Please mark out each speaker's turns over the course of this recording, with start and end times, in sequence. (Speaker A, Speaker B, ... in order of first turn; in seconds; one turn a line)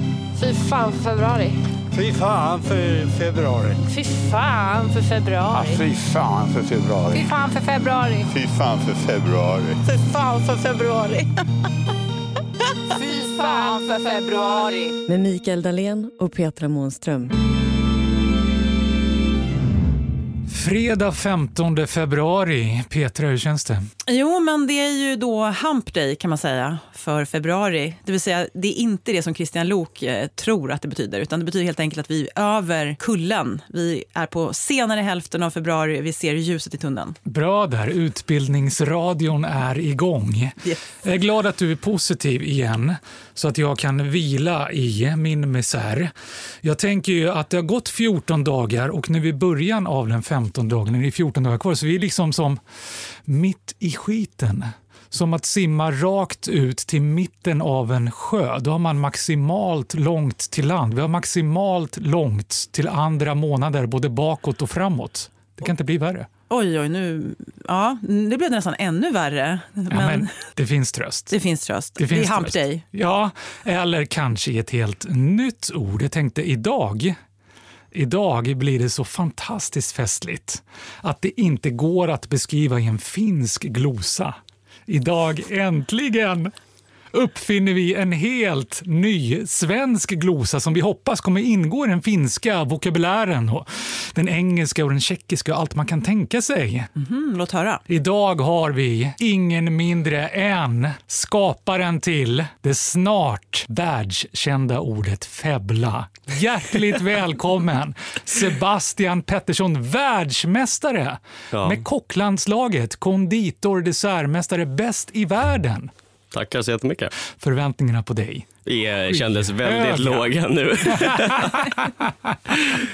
Speaker A: 0.4-1.6
Speaker B: 1.9-3.8
Speaker A: 3.9-5.8
Speaker B: 5.5-7.3
Speaker A: 7.1-8.3
Speaker B: 8.3-9.8
Speaker A: 9.8-11.4
Speaker A: 12.9-15.0
Speaker C: 15.1-17.3
Speaker D: 20.5-23.9
Speaker E: 24.1-37.2
Speaker D: 37.2-46.1
Speaker D: 46.6-52.6
Speaker D: 53.3-66.3
Speaker E: 66.5-70.3
Speaker D: 69.9-71.4
Speaker E: 71.3-72.8
Speaker D: 72.0-77.2
Speaker D: 77.9-84.4
Speaker D: 84.9-86.5
Speaker D: 87.1-96.9
Speaker E: 97.0-97.8
Speaker D: 97.9-115.9
Speaker F: 111.5-111.8
Speaker F: 116.3-117.1
Speaker D: 117.3-118.5
Speaker F: 118.7-121.8
Speaker D: 119.1-120.3
Speaker D: 120.8-122.1